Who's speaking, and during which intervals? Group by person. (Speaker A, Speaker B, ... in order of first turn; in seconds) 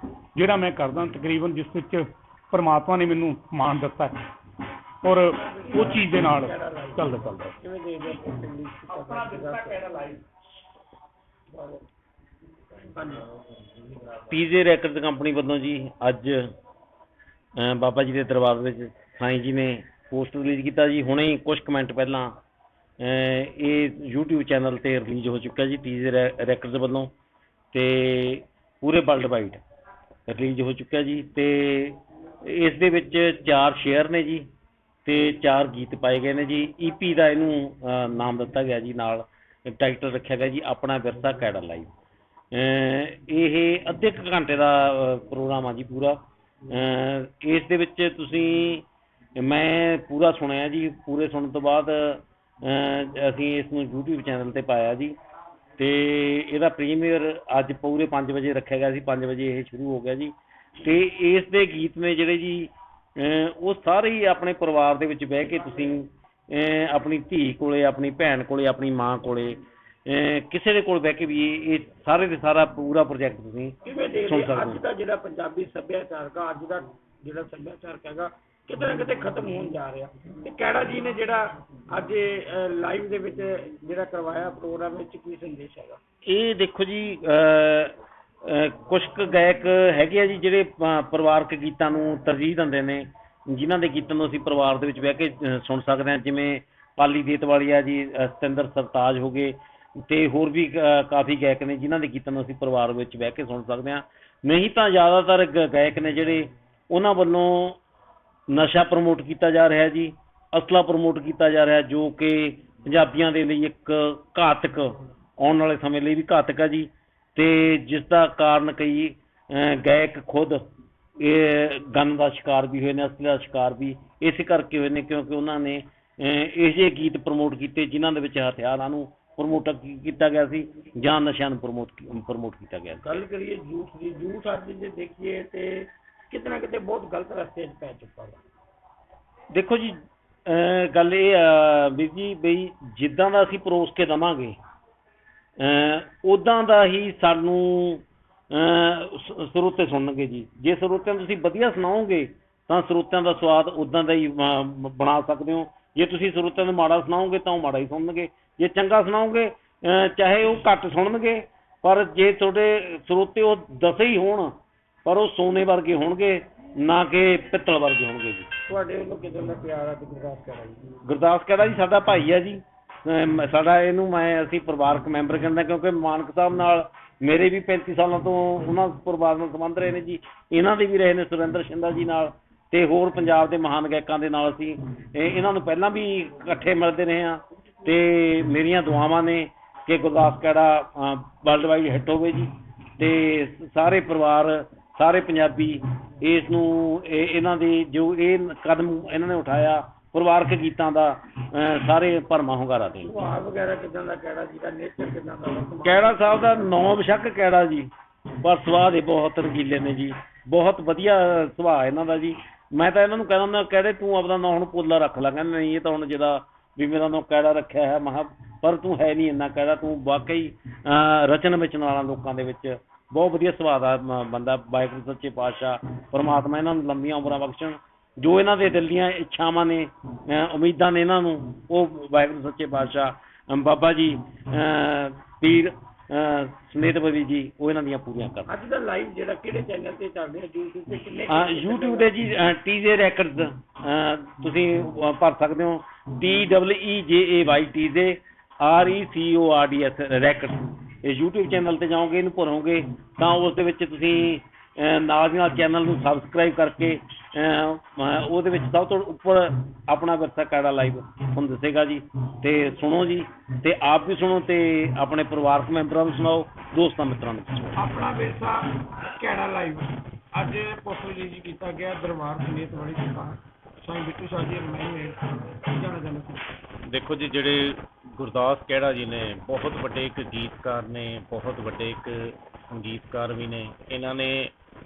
Speaker A: 0.3-4.2, 5.0-7.5, 8.9-10.2
Speaker B: 5.4-9.8, 11.5-11.9, 12.8-13.3, 73.8-86.0, 133.0-138.4, 168.7-170.8, 203.0-206.9, 238.5-242.1, 267.8-276.4
Speaker C: 14.3-16.5, 17.6-22.4, 23.0-27.1, 27.7-29.6, 30.3-34.5, 35.0-41.9, 42.5-55.2, 55.8-73.7, 74.3-74.8, 86.2-107.8, 108.5-120.7, 121.2-133.2, 139.5-144.6, 145.6-168.5, 171.0-203.2, 205.8-238.5, 241.3-267.8
Speaker D: 276.9-284.5